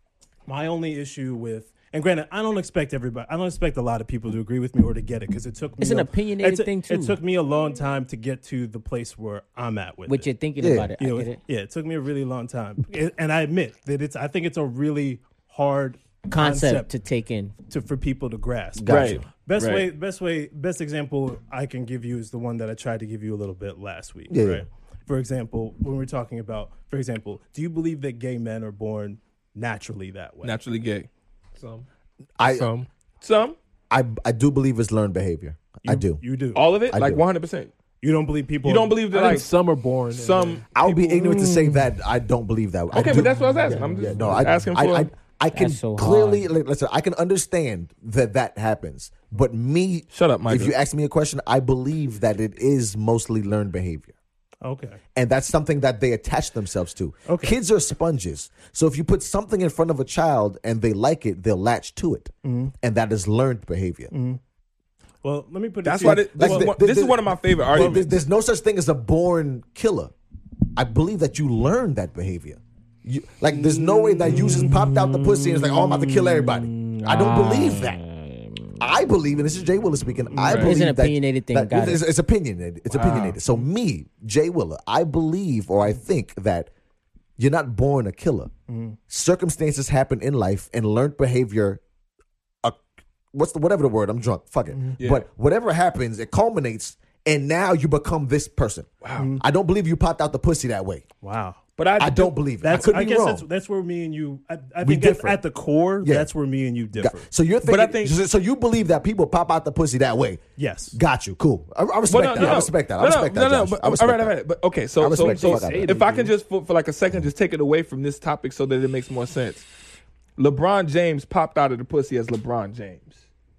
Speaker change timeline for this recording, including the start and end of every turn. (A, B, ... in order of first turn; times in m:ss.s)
0:00.5-0:10.3 A
0:05.8-0:07.2 B
0:10.0-0:11.4 B
0:10.6-0:10.9 C
0:11.0-0:16.9 A
0:16.3-0:17.5 B
0:17.7-0:30.6 A
0:18.8-0:19.2 C
0:18.9-0:19.9 D
0:24.3-0:24.6 C
0:30.4-0:31.1 D
0:31.6-0:31.8 E
0:32.4-0:32.7 C
0:32.4-0:32.9 E
0:33.2-0:33.6 D
0:33.9-0:36.2 C
0:35.8-0:36.6 A
0:36.5-0:37.7 D
0:36.9-0:37.2 C
0:38.0-0:39.4 A
0:38.6-0:39.5 D
0:39.1-0:40.9 E
0:40.1-0:40.6 D
0:40.7-0:54.1 C
0:42.9-0:45.1 D
0:43.0-0:44.5 E
0:45.5-0:46.5 B
0:50.1-0:50.7 D
0:54.6-0:55.0 A
0:55.1-1:04.1 C
0:57.3-0:57.6 A
1:02.4-1:02.7 A
1:04.1-1:04.4 A
1:05.2-1:06.7 A
1:05.8-1:08.1 D
1:06.0-1:10.1 C
1:07.7-1:08.0 A
1:10.8-1:18.0 C
1:13.5-1:18.8 B
1:18.8-1:26.7 C
1:20.3-1:20.6 A
1:20.4-1:20.7 D
1:20.5-1:22.0 B
1:22.9-1:23.4 D
1:27.4-1:28.5 C
1:28.7-1:29.0 A
1:29.1-1:31.8 C
1:33.3-1:41.0 C
1:34.7-1:35.0 A
1:35.0-1:35.2 D
1:39.0-1:39.3 D
1:39.2-1:39.4 A
1:41.2-1:41.6 A
1:41.8-1:42.8 D
1:42.0-1:43.4 C
1:42.6-1:47.3 A
1:44.8-1:45.4 C
1:46.0-1:46.3 C
1:46.9-1:54.3 C
1:47.6-1:48.1 D
1:50.6-1:51.0 A
1:52.1-1:59.7 D
1:52.4-1:52.7 A
1:55.0-1:56.0 C
1:55.1-1:56.3 E
2:00.4-2:03.2 D